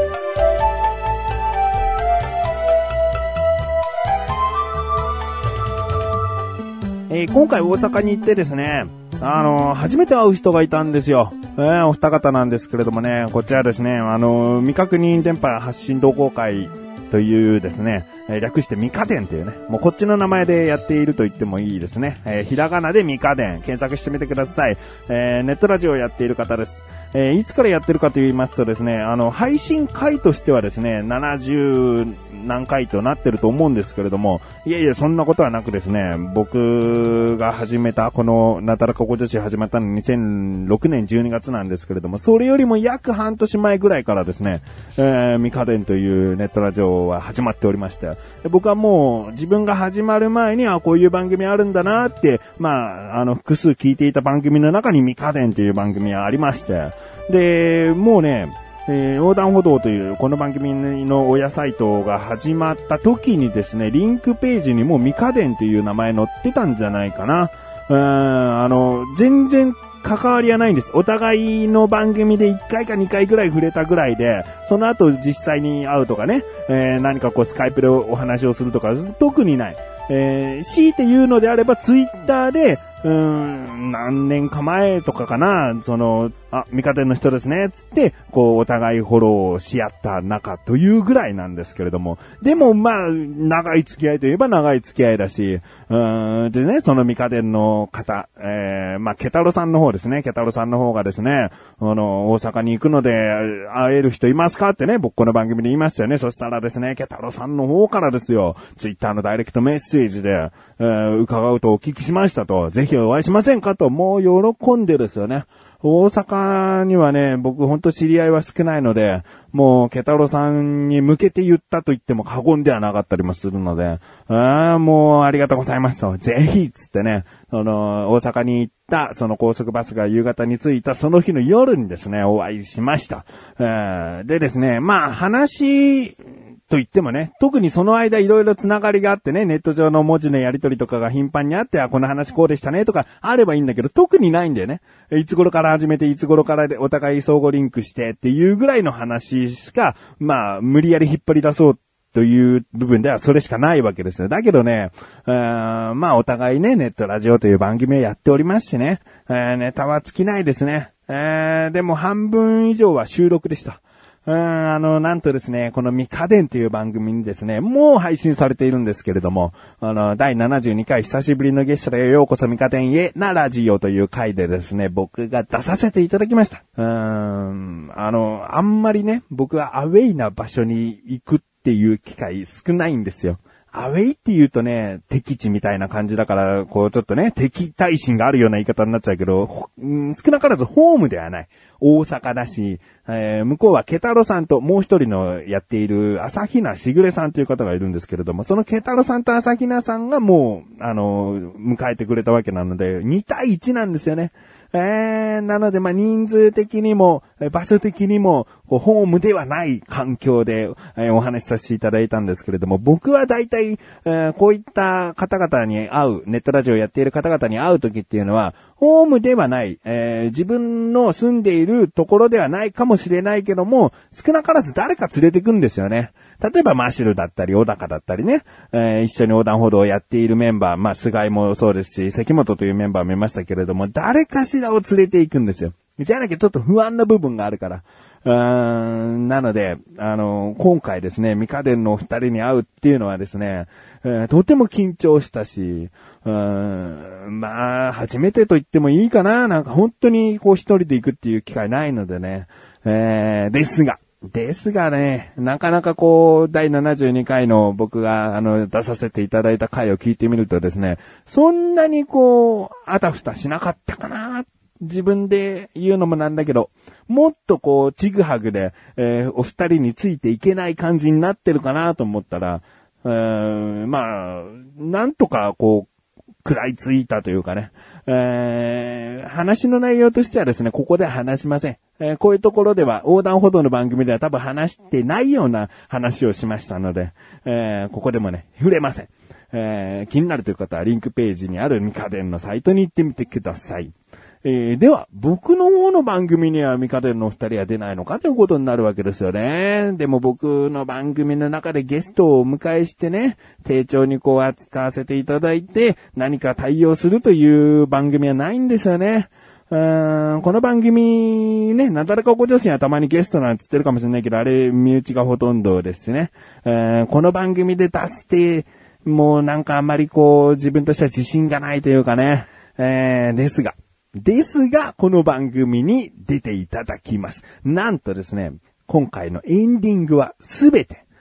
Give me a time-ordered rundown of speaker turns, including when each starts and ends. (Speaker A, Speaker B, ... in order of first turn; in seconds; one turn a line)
Speaker A: 7.1-275.9
Speaker A: 276.4-331.0